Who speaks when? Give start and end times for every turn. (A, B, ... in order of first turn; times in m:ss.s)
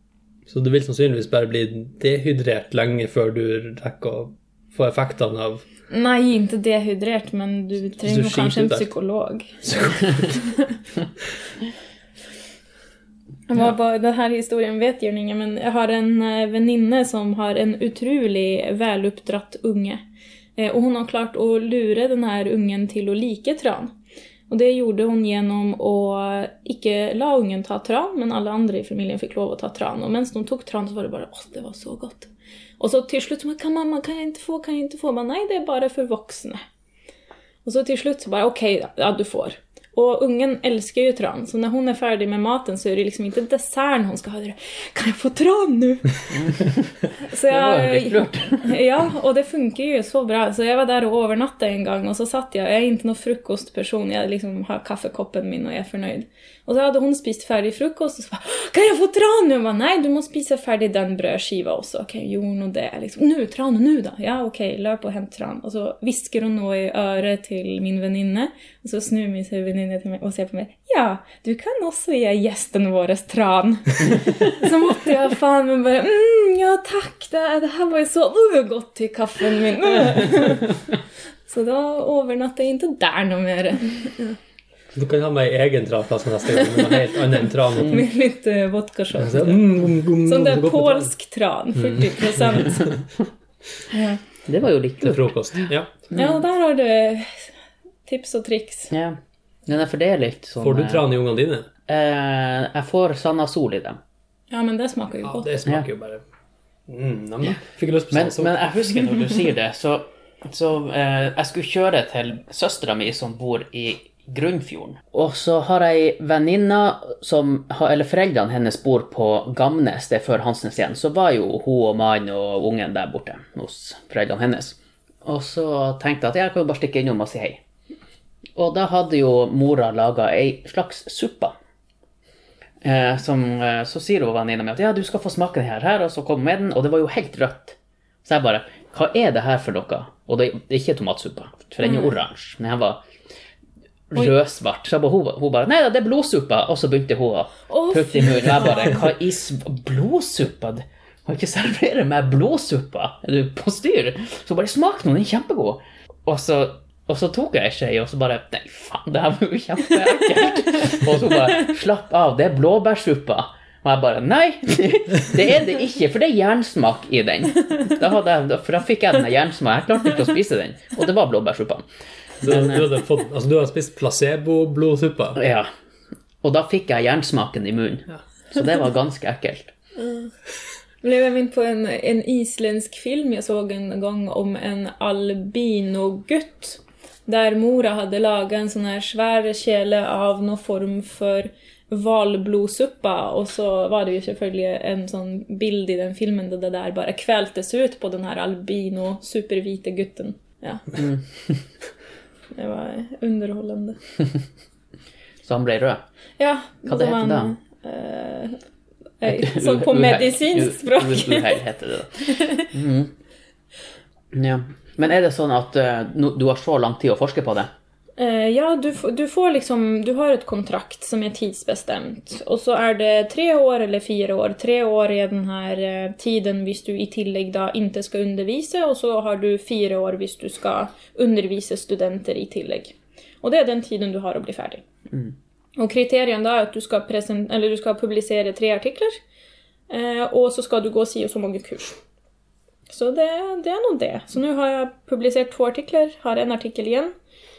0:00.5-0:05.6 A
0:05.9-0:10.8 B
0:08.0-0:08.9 A
0:13.5-0:20.0 B
0:20.6-0:23.9 B
0:24.5-0:36.6 B
0:37.6-0:46.5 B
0:46.3-0:48.7 C
0:47.2-1:20.8 B
1:21.5-1:24.4 B
1:24.9-1:28.0 A
1:27.8-1:33.0 B
1:29.2-1:31.1 A
1:31.8-1:32.9 A
1:33.9-1:34.2 B
1:34.5-1:36.2 C
1:35.0-1:35.9 A
1:36.1-1:37.5 B
1:38.0-1:38.9 B
1:38.9-1:41.0 C
1:40.6-1:41.7 A
1:41.9-1:44.0 C
1:44.5-1:45.6 B
1:45.2-1:46.2 A
1:46.9-1:48.6 A
1:48.1-2:07.6 C
2:08.6-2:11.5 C
2:12.8-2:23.0 C
2:21.8-2:22.1 B
2:24.1-2:51.8 C
2:27.7-2:29.0 B
2:52.4-2:52.9 C
2:52.4-2:55.4 A
2:55.4-2:55.7 C
2:56.4-2:59.7 C
3:00.0-3:00.3 B
3:01.0-3:21.0 B
3:21.0-3:21.2 C
3:22.5-3:24.0 B
3:25.4-3:26.0 C
3:26.4-3:28.6 B
3:26.8-3:27.6 C
3:29.2-3:31.6 B
3:29.2-3:33.1 C
3:32.2-3:32.7 B
3:34.3-3:37.7 C
3:38.2-3:54.8 B
3:55.8-3:59.2 B
3:59.9-4:02.0 B
4:02.9-4:07.1 B